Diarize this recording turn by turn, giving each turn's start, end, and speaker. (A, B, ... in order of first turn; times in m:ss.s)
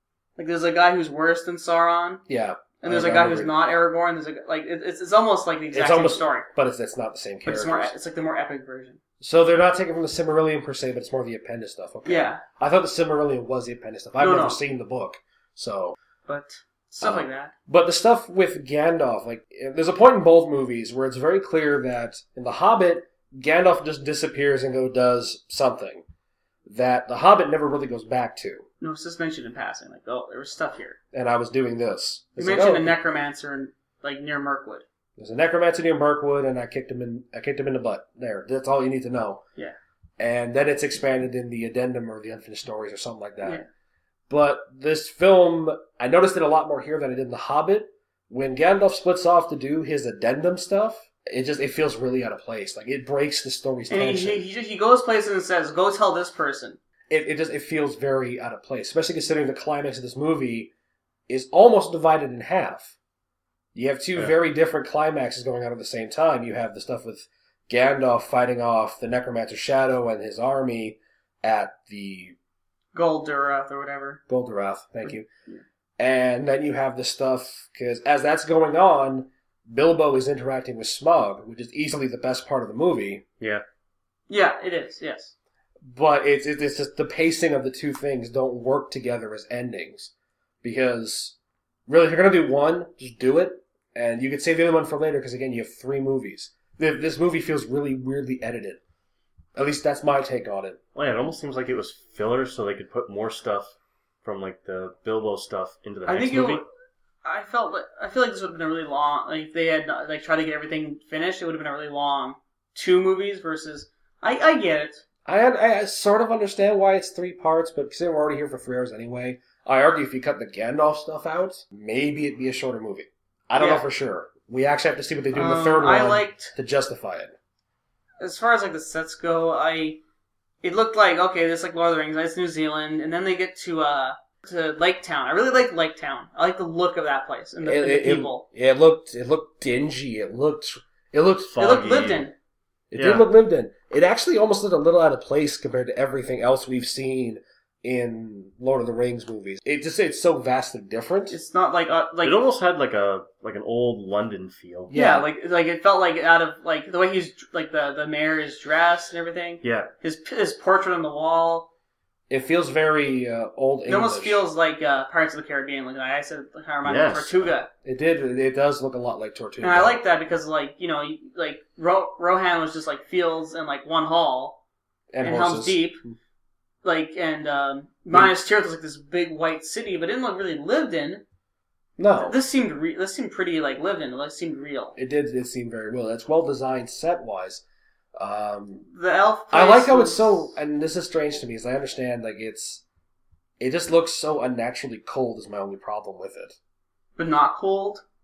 0:00.4-0:02.2 A
0:02.3-0:03.5 B
0:02.8-0:06.5 A
0:05.7-0:07.9 B
0:07.4-0:09.0 A
0:09.2-0:16.0 B
0:12.1-0:12.4 A
0:14.2-0:14.6 A
0:16.3-0:17.5 A
0:17.0-0:26.0 B
0:26.7-0:28.7 B
0:28.8-0:31.0 A
0:31.1-0:32.9 B
0:32.4-0:34.8 A
0:35.2-0:39.4 B
0:40.2-0:43.6 B
0:44.3-0:54.4 B
0:53.9-0:56.8 A
0:57.1-1:00.7 B
1:01.3-1:03.0 B
1:03.8-1:12.4 B
1:12.9-1:14.2 A
1:14.3-1:15.3 B
1:16.0-1:23.2 B
1:24.3-1:25.3 A
1:25.8-1:30.1 B
1:30.6-1:31.4 B
1:31.9-1:38.8 B
1:39.6-1:40.8 B
1:41.0-1:46.6 C
1:46.1-1:46.7 A
1:47.2-1:55.0 A
1:55.3-2:07.3 B
2:03.6-2:03.8 A
2:05.3-2:06.5 A
2:08.2-2:10.0 A
2:10.6-2:18.4 A
2:17.6-2:21.6 B
2:21.5-2:22.3 C
2:21.6-2:22.3 A
2:22.9-2:31.4 B
2:23.0-2:23.3 C
2:31.3-2:32.4 A
2:32.2-2:34.9 C
2:34.9-2:35.3 B
2:34.9-2:41.7 A
2:39.6-2:39.9 C
2:42.3-2:44.4 B
2:43.9-2:47.7 A
2:46.8-2:47.5 C
2:47.8-2:50.0 B
2:49.6-2:54.6 A
2:55.1-2:56.1 B
2:55.2-2:56.0 A
2:56.8-3:01.2 A
3:02.0-3:02.4 B
3:02.2-3:05.0 A
3:05.0-3:07.6 B
3:08.2-3:08.9 B
3:08.9-3:10.5 A
3:09.5-3:12.8 B
3:13.6-3:16.6 B
3:17.2-3:18.0 A